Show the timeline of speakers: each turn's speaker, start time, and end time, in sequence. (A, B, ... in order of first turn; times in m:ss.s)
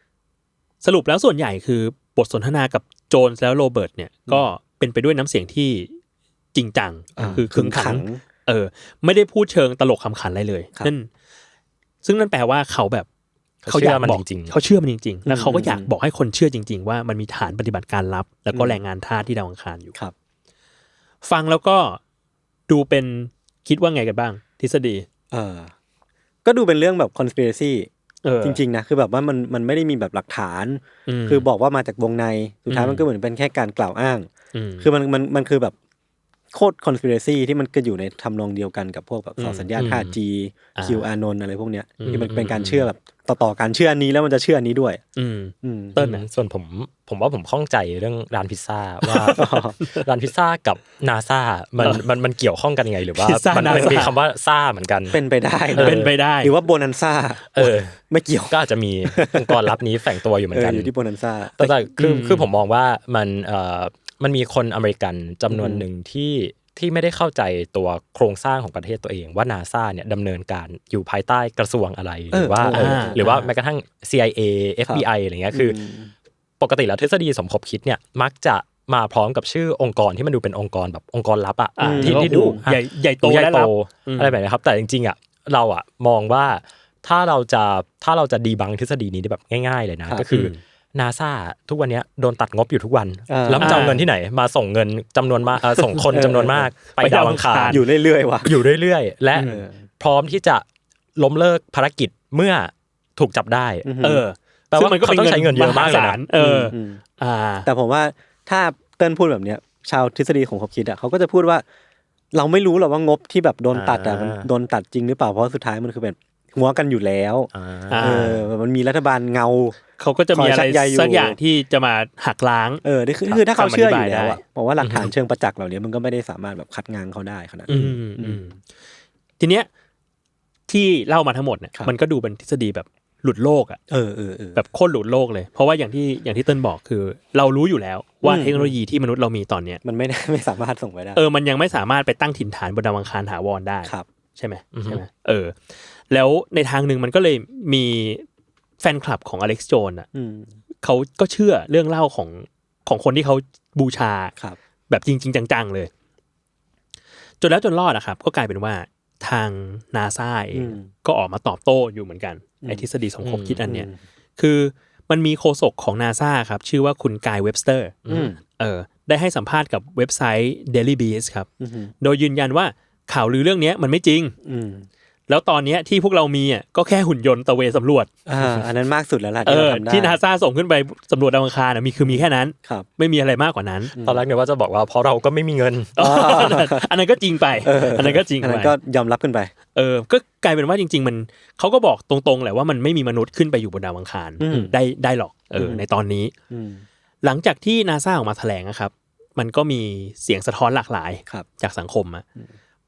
0:00.8-0:06.0 A
0:06.5-0:11.1 A
0:07.2-0:08.2 B
0:12.0-0:13.1 A
0:13.6-0:14.6 C
0:13.7-0:19.9 A
0:15.2-0:15.9 B
0:18.5-0:18.8 B
0:21.2-0:22.0 A
0:22.7-0:25.0 A
0:25.3-0:25.7 B
0:26.4-0:27.9 B
0:28.2-0:28.6 A
0:28.4-0:34.3 B
0:31.1-0:31.5 A
0:32.7-0:33.0 A
0:34.5-0:34.9 A
0:34.8-0:35.7 B
0:36.5-0:45.0 B
0:39.4-0:39.9 A
0:39.8-0:40.1 C
0:40.8-0:41.1 A
0:42.0-0:42.3 C
0:42.0-0:42.9 A
0:45.2-0:46.2 A
0:45.6-0:46.0 B
0:46.0-0:55.2 C
0:49.0-0:50.1 A
0:49.4-0:49.8 B
0:51.8-0:52.0 A
0:53.1-0:54.1 A
0:53.6-0:54.1 B
0:55.1-0:59.7 B
0:55.7-0:56.5 A
0:55.8-0:56.1 C
0:57.5-0:58.0 C
0:58.5-1:00.9 C
1:00.5-1:01.8 B
1:01.6-1:15.8 C
1:02.0-1:02.5 A
1:05.5-1:05.8 B
1:12.3-1:13.3 B
1:12.7-1:13.5 A
1:14.9-1:16.1 B
1:16.6-1:37.8 C
1:21.8-1:24.4 A
1:21.8-1:22.6 B
1:30.3-1:30.6 A
1:33.3-1:33.9 B
1:33.6-1:34.1 A
1:35.7-1:36.1 A
1:36.1-1:36.7 B
1:37.0-1:37.8 A
1:37.7-1:38.6 B
1:38.4-1:40.6 C
1:39.4-1:39.6 A
1:39.6-1:39.8 B
1:41.2-1:43.9 C
1:43.8-1:44.2 B
1:44.0-1:47.7 A
1:44.7-1:46.2 C
1:46.4-1:47.0 B
1:47.6-1:51.6 B
1:52.3-1:59.8 B
1:53.7-1:54.5 C
1:57.5-1:58.5 C
1:57.9-1:58.4 A
2:00.0-2:04.4 A
2:00.3-2:01.4 B
2:02.8-2:08.4 B
2:04.8-2:05.1 C
2:07.7-2:08.6 A
2:09.4-2:09.7 A
2:10.7-2:13.8 A
2:13.9-2:14.6 B
2:14.6-2:19.8 A
2:18.2-2:18.8 B
2:19.8-2:21.2 B
2:21.1-2:28.2 A
2:24.7-2:25.0 C
2:28.8-2:30.1 A
2:30.1-2:30.6 B
2:30.8-2:34.3 A
2:34.9-2:35.9 A
2:37.4-2:48.0 A
2:40.5-2:40.9 B
2:43.2-2:43.6 C
2:43.6-2:44.0 B
2:48.1-2:48.3 C
2:48.1-2:48.4 B
2:48.5-2:51.5 A
2:51.6-2:51.9 B
2:52.0-2:54.4 A
2:54.4-2:54.9 B
2:55.3-2:58.1 A
2:58.2-3:00.2 B
2:59.4-3:03.9 A
3:02.0-3:02.9 B
3:03.9-3:04.2 B
3:04.0-3:06.0 C
3:06.0-3:08.8 A
3:06.0-3:06.8 B
3:07.6-3:09.5 B
3:09.8-3:16.3 A
3:14.4-3:14.8 B
3:15.6-3:15.8 B
3:16.5-3:16.8 B
3:17.2-3:22.2 A